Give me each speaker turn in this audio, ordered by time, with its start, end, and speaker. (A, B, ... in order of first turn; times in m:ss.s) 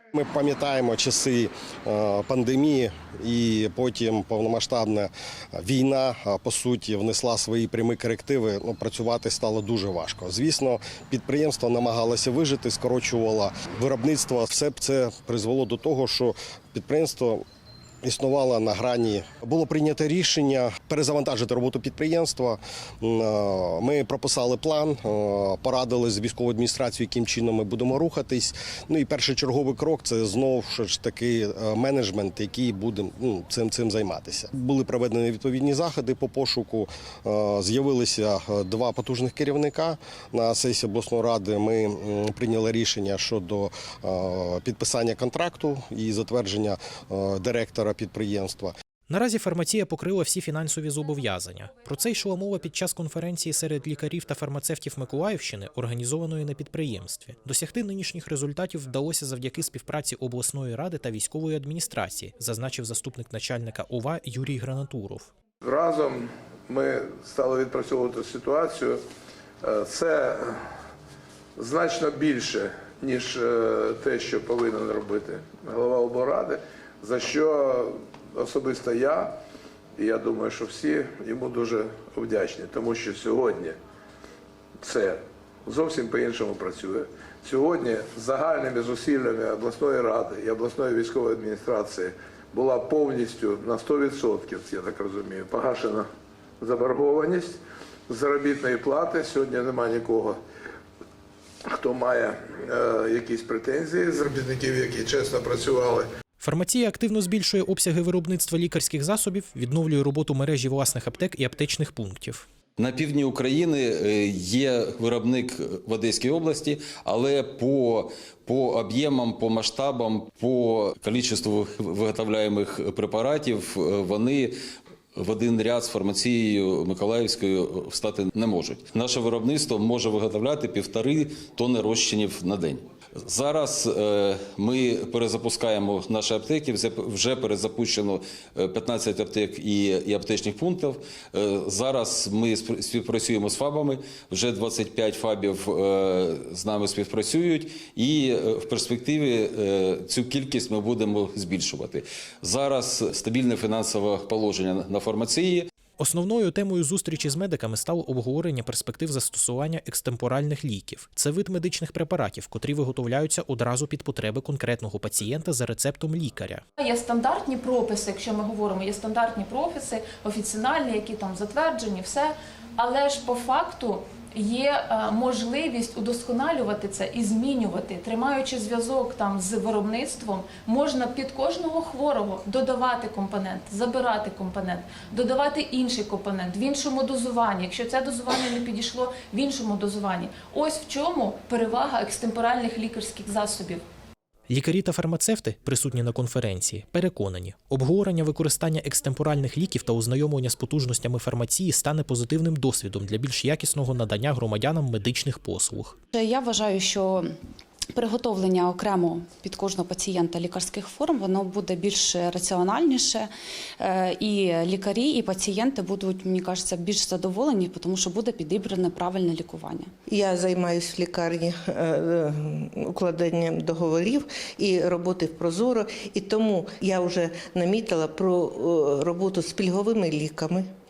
0:00.1-0:17.4 A
0:18.0-0:48.7 A
0:49.1-1:05.3 B
1:05.6-1:09.0 C
1:09.6-1:10.6 C
1:11.6-1:19.3 C
1:20.0-1:23.8 C
1:24.8-1:36.0 C
1:36.6-1:37.6 C
1:38.1-1:40.4 C
1:41.7-1:46.0 C
1:46.4-1:52.4 B
1:52.8-2:04.5 D
2:05.1-2:35.7 D
2:36.0-2:46.6 B
2:46.8-3:13.8 E
3:14.5-3:26.0 B
3:26.1-3:27.3 F
3:27.9-3:39.9 F
3:40.1-3:50.6 G